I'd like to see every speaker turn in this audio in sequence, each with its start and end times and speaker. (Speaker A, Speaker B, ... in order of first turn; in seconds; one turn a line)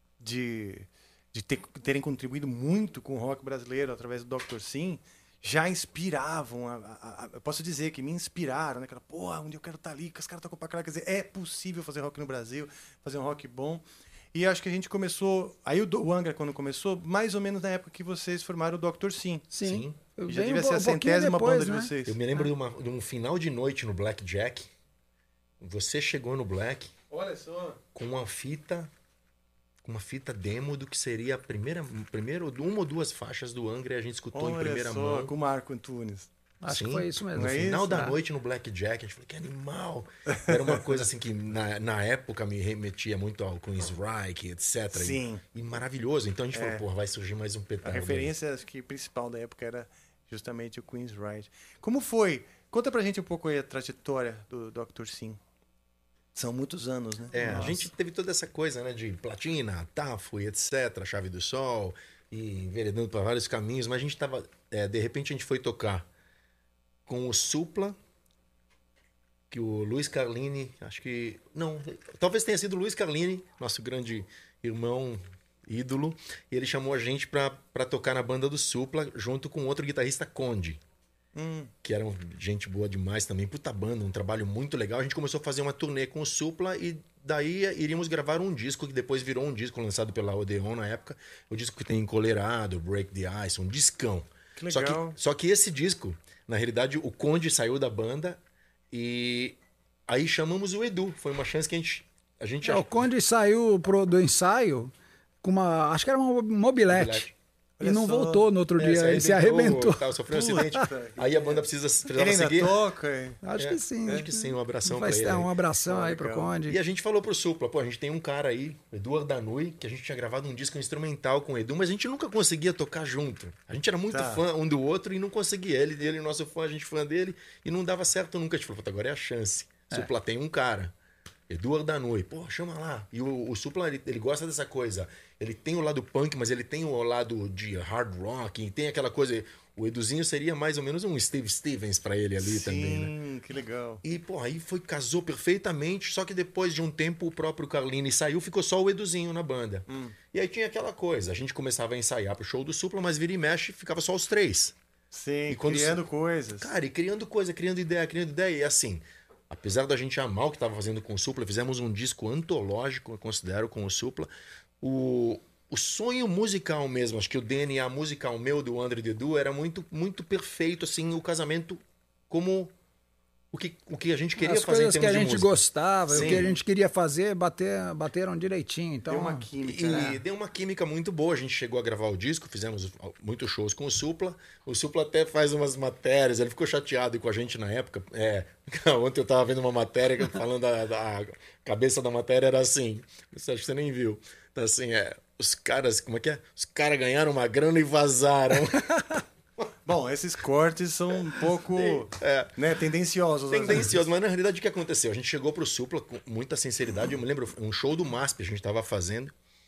Speaker A: 0.2-19.5
Speaker B: 19.5-21.9
Speaker C: 19.6-20.0
Speaker A: 20.2-22.2
Speaker C: 22.1-24.7
Speaker C: 25.6-26.9
Speaker A: 27.1-27.8
Speaker C: 27.9-28.9
Speaker C: 29.8-35.3
Speaker A: 34.3-36.3
Speaker B: 36.6-38.1
Speaker C: 36.6-48.3
Speaker A: 37.3-38.0
Speaker A: 40.5-41.0
Speaker A: 44.9-45.4
Speaker A: 46.5-46.8
Speaker A: 47.8-55.4
Speaker A: 56.3-57.9
Speaker C: 57.3-66.0
Speaker C: 67.1-68.0
Speaker C: 69.5-80.8
Speaker A: 81.3-81.7
Speaker C: 81.8-98.4
Speaker A: 94.5-95.2
Speaker C: 98.9-99.6
Speaker C: 100.1-102.9
Speaker B: 102.6-104.9
Speaker B: 105.4-107.3
Speaker C: 106.9-107.3
Speaker A: 107.8-108.5
Speaker B: 107.8-110.7
Speaker C: 108.8-112.8
Speaker A: 110.3-113.4
Speaker B: 113.4-116.8
Speaker C: 113.6-115.5
Speaker A: 115.9-116.5
Speaker C: 116.7-130.9
Speaker A: 124.1-124.4
Speaker C: 131.5-143.1
Speaker A: 142.4-144.0
Speaker C: 144.0-154.7
Speaker A: 149.9-150.2
Speaker A: 155.1-156.7
Speaker C: 155.5-156.0
Speaker C: 156.6-164.3
Speaker C: 164.8-172.7
Speaker C: 173.5-176.5
Speaker B: 174.4-180.1
Speaker A: 176.1-176.6
Speaker A: 179.1-180.2
Speaker C: 179.6-199.2
Speaker A: 199.8-203.9
Speaker C: 201.7-202.5
Speaker C: 203.5-209.3